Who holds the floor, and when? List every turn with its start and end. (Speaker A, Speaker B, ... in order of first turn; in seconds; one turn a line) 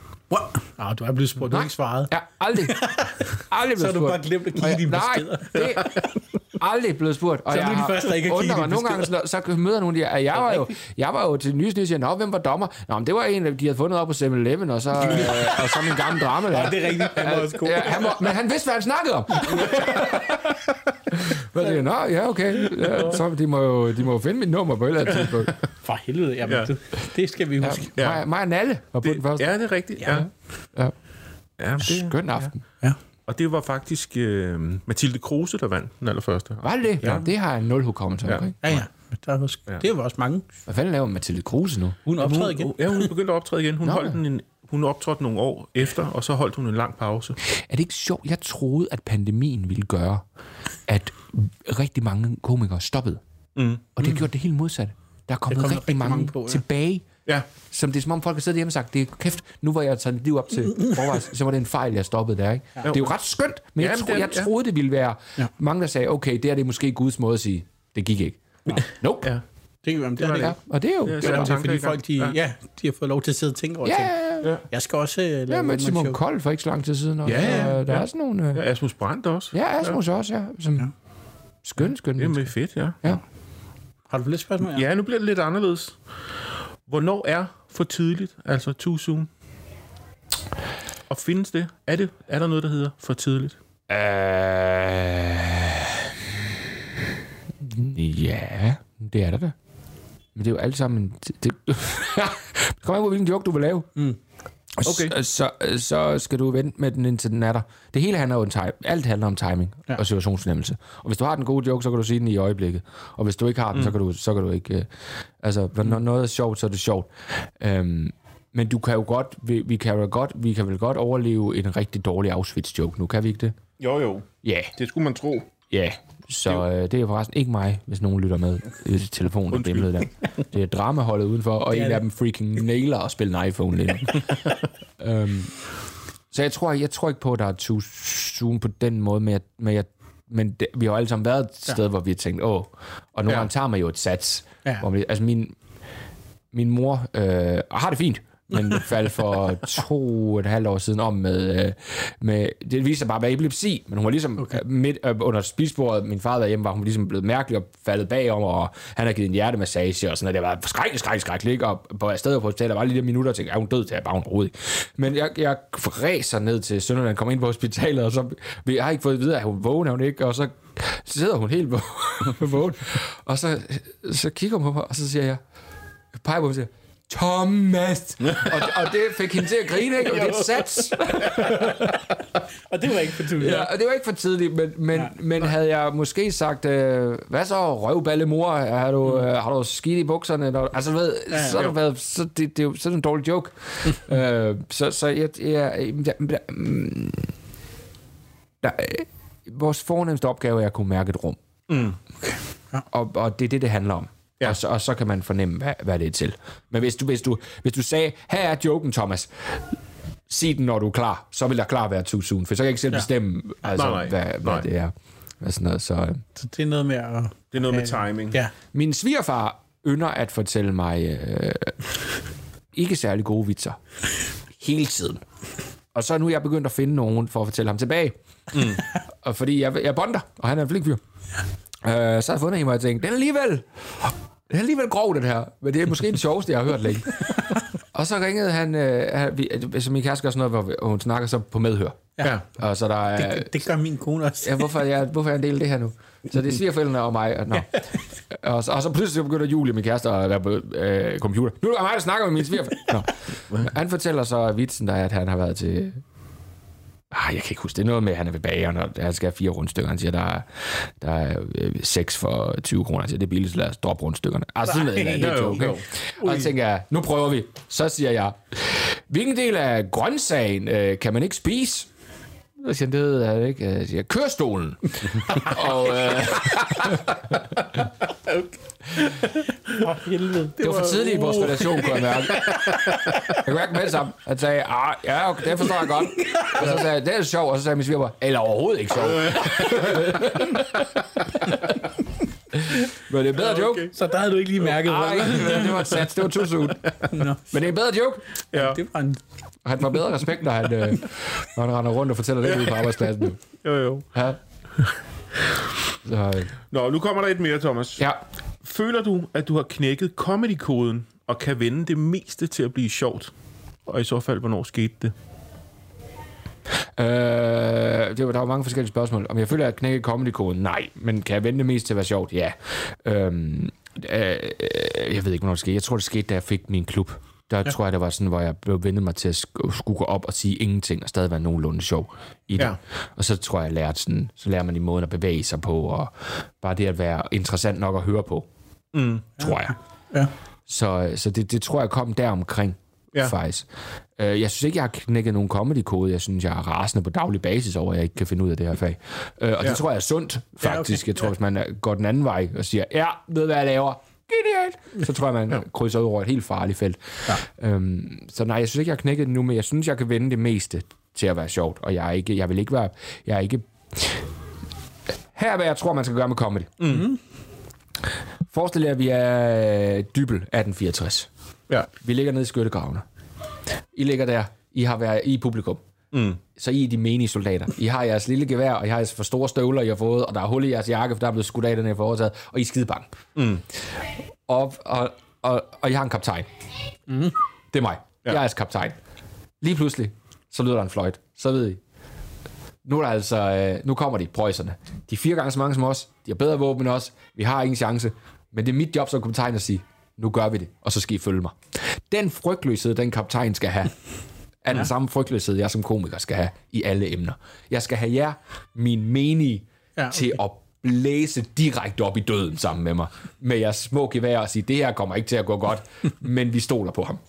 Speaker A: 0.3-6.1
Speaker B: 1.5-6.0
Speaker B: 6.5-25.5
Speaker A: 7.5-9.1
Speaker A: 15.1-18.2
Speaker A: 19.5-19.8
Speaker A: 22.8-23.1
Speaker A: 25.8-27.9
Speaker C: 26.4-26.7
Speaker B: 27.6-29.5
Speaker C: 27.9-28.2
Speaker C: 29.0-30.3
Speaker B: 30.0-30.9
Speaker C: 31.6-32.5
Speaker B: 31.8-32.6
Speaker C: 33.3-37.2
Speaker B: 36.6-38.8
Speaker A: 38.6-40.4
Speaker B: 40.7-42.1
Speaker A: 42.0-43.1
Speaker C: 42.2-47.4
Speaker B: 43.8-44.2
Speaker B: 47.4-50.3
Speaker B: 50.9-53.2
Speaker C: 53.5-53.9
Speaker B: 53.9-57.2
Speaker A: 55.5-56.6
Speaker B: 57.7-69.3
Speaker C: 62.8-63.1
Speaker C: 63.8-64.5
Speaker C: 68.7-69.4
Speaker A: 69.8-70.6
Speaker B: 70.3-71.5
Speaker C: 71.0-72.4
Speaker A: 71.2-76.2
Speaker B: 73.8-74.5
Speaker B: 75.5-78.6
Speaker C: 77.2-80.0
Speaker A: 77.3-77.8
Speaker B: 79.5-80.9
Speaker B: 81.6-83.2
Speaker C: 82.2-83.0
Speaker A: 84.1-84.8
Speaker C: 84.6-86.0
Speaker C: 86.8-89.3
Speaker C: 91.1-93.5
Speaker B: 93.9-96.8
Speaker B: 97.6-99.5
Speaker B: 100.3-103.9
Speaker B: 104.7-114.9
Speaker C: 104.8-105.1
Speaker B: 115.4-123.5
Speaker C: 123.8-125.5
Speaker B: 124.4-124.7
Speaker B: 125.7-134.4
Speaker C: 129.5-130.1
Speaker A: 131.7-132.0
Speaker B: 135.0-135.6
Speaker B: 136.3-145.5
Speaker B: 146.5-175.4
Speaker B: 176.1-182.2
Speaker C: 178.2-178.8
Speaker C: 180.0-181.5
Speaker A: 182.7-183.7
Speaker B: 183.4-197.3
Speaker A: 191.3-191.6
Speaker B: 198.6-201.4
Speaker C: 201.7-202.0
Speaker A: 202.2-202.8
Speaker B: 202.9-209.8
Speaker B: 210.3-216.2
Speaker C: 213.7-214.7
Speaker A: 216.3-218.5
Speaker C: 217.5-218.4
Speaker B: 218.7-221.8
Speaker B: 222.7-223.8
Speaker B: 224.6-225.2
Speaker B: 225.9-231.0
Speaker C: 228.5-228.8
Speaker B: 231.8-243.6
Speaker A: 243.2-244.7
Speaker B: 244.4-247.7
Speaker A: 247.5-247.8
Speaker B: 248.3-256.0
Speaker B: 257.1-271.9
Speaker A: 264.6-266.5
Speaker C: 265.2-265.9
Speaker B: 272.6-277.9
Speaker A: 278.2-283.4
Speaker B: 280.6-282.8
Speaker C: 280.6-283.0
Speaker B: 283.3-291.7
Speaker A: 286.2-286.6
Speaker C: 286.6-286.8
Speaker C: 289.1-290.2
Speaker B: 292.5-293.9
Speaker C: 293.4-293.9
Speaker A: 293.9-296.0
Speaker B: 294.6-298.2
Speaker A: 297.1-297.4
Speaker C: 298.5-298.8
Speaker A: 298.5-299.2
Speaker B: 299.6-303.6
Speaker C: 303.6-304.1
Speaker B: 304.1-304.4
Speaker B: 306.0-306.5
Speaker C: 306.7-308.1
Speaker C: 308.6-313.3
Speaker C: 313.9-315.1
Speaker B: 316.9-338.5
Speaker C: 338.9-339.3
Speaker B: 339.4-339.7
Speaker B: 340.7-364.3
Speaker A: 350.6-351.3
Speaker B: 365.3-366.8
Speaker C: 366.8-367.1
Speaker A: 366.9-367.2
Speaker B: 368.5-371.3
Speaker B: 372.0-373.0
Speaker B: 373.9-375.8
Speaker C: 376.1-376.4
Speaker B: 376.5-383.1
Speaker C: 383.4-383.6
Speaker B: 384.5-386.5
Speaker A: 387.1-387.3
Speaker B: 387.7-389.0
Speaker B: 389.6-391.8
Speaker B: 392.8-403.9
Speaker B: 404.6-417.2
Speaker A: 410.0-410.4